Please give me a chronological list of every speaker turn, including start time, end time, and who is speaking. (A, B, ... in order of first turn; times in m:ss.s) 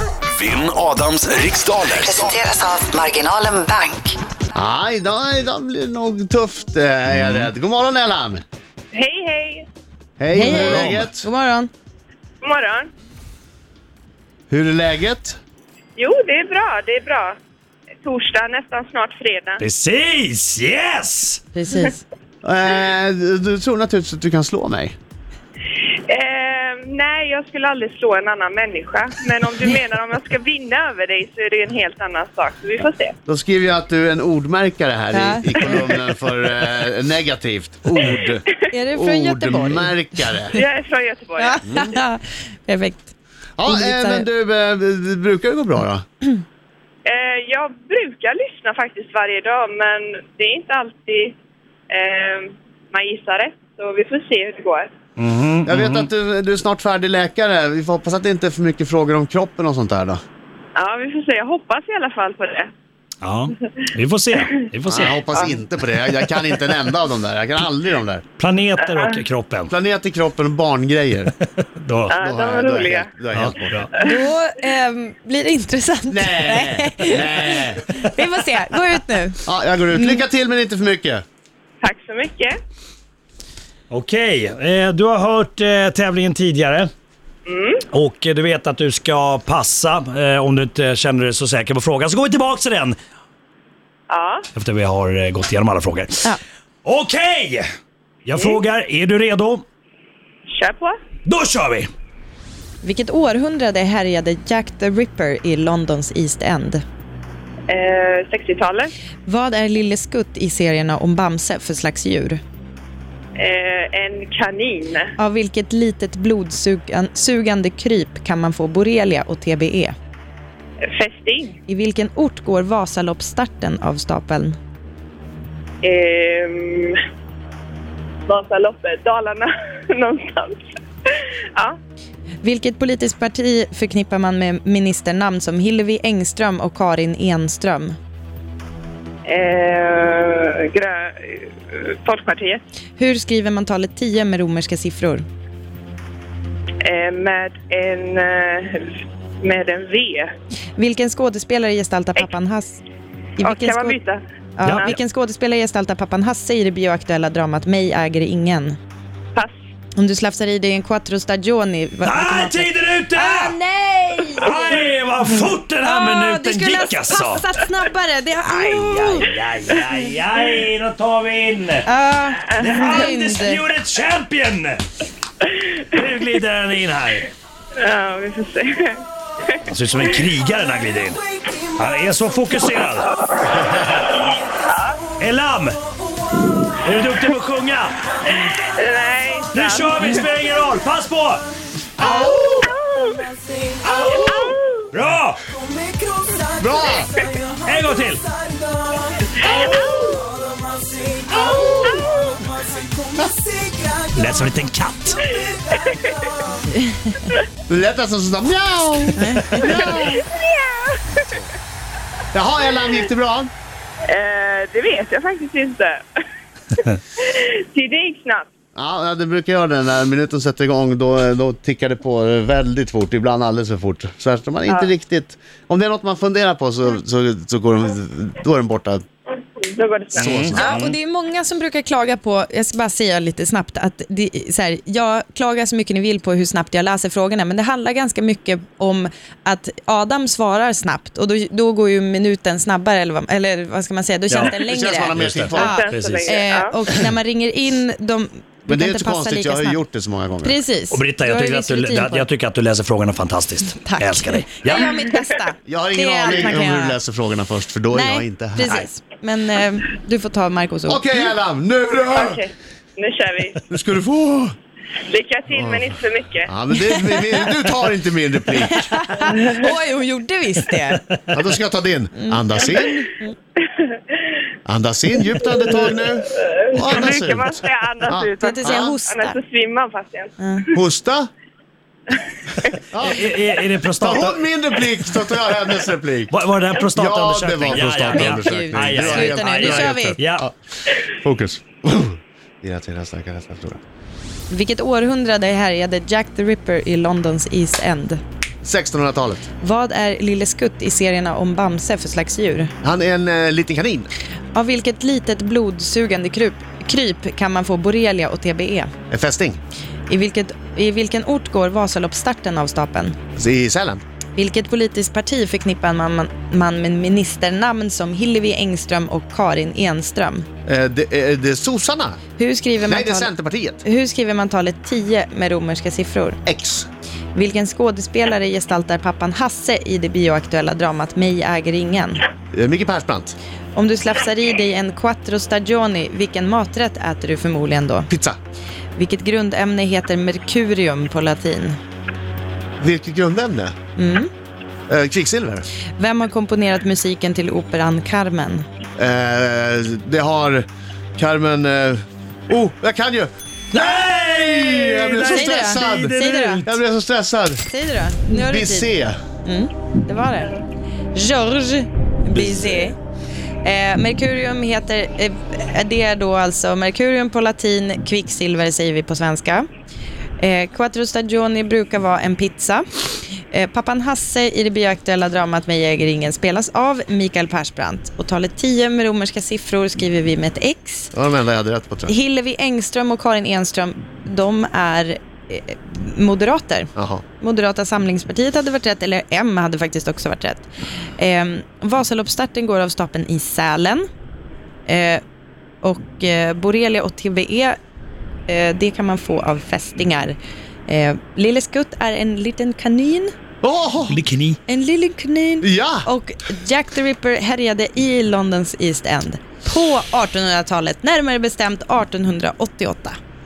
0:00.3-0:02.4 A
0:01.9-0:04.2 B
0:04.5-0:08.4 C
0:07.1-0:07.4 D
0:08.9-0:09.7 E
0:10.2-0:11.3 C
0:10.3-0:11.7 F
0:10.4-0:11.1 D
0:12.4-0:12.9 E
0:14.5-0:15.4 C
0:16.0-0:17.3 E
0:18.0-0:19.6 E
0:19.6-0:21.4 D
0:21.5-0:22.0 F
0:22.4-0:24.9 C
0:26.1-0:33.1 E
0:33.2-0:40.5 C
0:35.1-0:35.8 F
0:38.7-0:40.4 F
0:40.5-0:41.6 E
0:41.4-0:43.1 F
0:41.6-0:41.9 C
0:43.6-0:46.0 C
0:43.6-0:44.3 F
0:47.0-0:51.4 E
0:51.9-0:54.9 E
0:55.2-0:56.1 D
0:55.6-1:00.2 C
1:00.8-1:02.7 E
1:03.2-1:05.2 D
1:04.9-1:08.2 C
1:05.3-1:05.6 E
1:08.4-1:09.7 D
1:08.9-1:09.2 E
1:09.7-1:11.3 C
1:11.5-1:12.2 D
1:12.1-1:13.1 E
1:12.1-1:13.9 C
1:13.3-1:13.9 D
1:14.0-1:19.4 F
1:16.1-1:17.8 C
1:19.4-1:21.2 C
1:19.9-1:20.2 F
1:21.8-1:22.5 E
1:23.9-1:26.9 D
1:27.4-1:27.8 E
1:27.9-1:33.0 D
1:34.1-1:34.5 E
1:34.5-1:36.2 D
1:36.8-1:37.6 D
1:38.2-1:39.6 D
1:40.5-1:40.9 E
1:41.2-1:41.9 D
1:42.8-1:46.8 F
1:47.7-1:48.9 E
1:49.2-1:52.4 F
1:53.4-1:55.1 E
1:55.2-1:59.9 F
2:00.8-2:01.6 E
2:01.7-2:04.6 F
2:05.8-2:07.0 E
2:08.3-2:11.8 E
2:12.4-2:18.0 F
2:19.3-2:22.6 E
2:23.0-2:25.2 F
2:26.8-2:30.3 E
2:30.8-2:32.8 F
2:33.4-2:34.0 F
2:33.4-2:35.0 E
2:34.6-2:38.8 F
2:34.6-2:34.9 D
2:40.0-2:44.6 F
2:42.0-2:43.5 D
2:44.3-2:47.6 D
2:45.8-2:49.3 F
2:48.5-2:51.9 D
2:51.8-2:53.6 F
2:52.5-2:53.1 E
2:52.6-2:54.8 D
2:55.5-2:57.3 D
2:57.8-2:59.6 E
2:59.6-3:03.2 D
3:04.6-3:05.1 E
3:05.2-3:05.8 D
3:06.8-3:08.2 D
3:08.3-3:10.2 E
3:09.5-3:11.5 D
3:12.0-3:12.7 C
3:12.0-3:13.3 E
3:13.9-3:14.8 E
3:13.9-3:14.2 C
3:14.0-3:14.3 D
3:14.9-3:15.4 D
3:16.6-3:17.2 C
3:17.6-3:18.2 D
3:19.4-3:20.2 C
3:19.4-3:20.2 E
3:21.4-3:22.1 C
3:21.5-3:22.3 E
3:24.1-3:25.3 D
3:25.4-3:26.5 E
3:26.8-3:27.1 F
3:27.7-3:30.2 C
3:29.2-3:29.8 F
3:29.6-3:31.4 E
3:32.3-3:33.5 C
3:34.1-3:36.2 E
3:36.7-3:38.5 E
3:38.7-3:49.0 C
3:49.4-3:50.3 E
3:50.2-3:50.8 C
3:50.2-3:50.9 D
3:50.5-4:09.8 F
4:04.3-4:04.6 D
4:04.6-4:05.8 C
4:05.1-4:06.4 D
4:05.6-4:06.7 E
4:08.7-4:10.6 C
4:10.4-4:12.3 F
4:10.9-4:15.0 D
4:13.7-4:17.0 F
4:15.6-4:18.9 C
4:17.9-4:21.3 F
4:20.9-4:22.4 C
4:22.1-4:23.6 E
4:23.7-4:24.5 C
4:25.0-4:26.5 E
4:25.5-4:25.8 C
4:26.4-4:28.9 C
4:26.9-4:27.4 F
4:28.7-4:31.0 F
4:29.3-4:29.6 E
4:31.3-4:33.1 C
4:32.2-4:33.3 F
4:33.6-4:34.0 E
4:34.6-4:38.9 C
4:35.7-4:40.4 E
4:38.4-4:39.4 F
4:40.4-4:40.6 F
4:40.7-4:41.3 C
4:42.1-4:42.8 E
4:42.9-4:43.3 C
4:43.0-4:44.4 D
4:44.0-4:46.3 C
4:46.3-4:50.4 D
4:46.9-4:53.8 C
4:48.2-4:50.2 F
4:54.5-4:58.2 F
4:58.6-4:59.4 C
4:59.6-5:02.7 F
5:02.8-5:04.1 C
5:04.5-5:08.9 F
5:09.1-5:09.6 C
5:10.1-5:13.2 F
5:13.4-5:14.0 C
5:14.4-5:20.4 F
5:20.6-5:22.2 C
5:22.4-5:23.3 F
5:22.8-5:23.8 C
5:23.8-5:26.4 F
5:26.4-5:26.9 C
5:27.3-5:32.2 F
5:32.5-5:33.3 C
5:33.7-5:38.1 F
5:38.1-5:38.4 C
5:39.0-5:41.8 F
5:42.8-5:43.7 C
5:44.0-5:44.3 F
5:44.9-5:45.6 C
5:46.0-5:48.6 F
5:49.0-5:50.6 C
5:51.2-5:53.3 C
5:53.7-5:56.8 D
5:54.2-5:57.6 C
5:55.2-5:56.6 F
5:57.6-5:58.9 F
5:58.3-5:59.2 C
5:59.4-6:00.6 F
6:01.1-6:03.0 F
6:02.3-6:02.9 C
6:03.6-6:09.7 F
6:10.4-6:12.8 F
6:13.5-6:21.1 F
6:21.1-6:22.1 C
6:22.1-6:34.0 F
6:27.0-6:27.2 C
6:34.8-6:35.2 F
6:35.8-6:37.8 F
6:38.5-6:40.4 F
6:40.9-6:43.3 F
6:43.6-6:44.2 C
6:44.1-6:44.6 D
6:44.7-6:53.2 F
6:45.6-6:46.1 C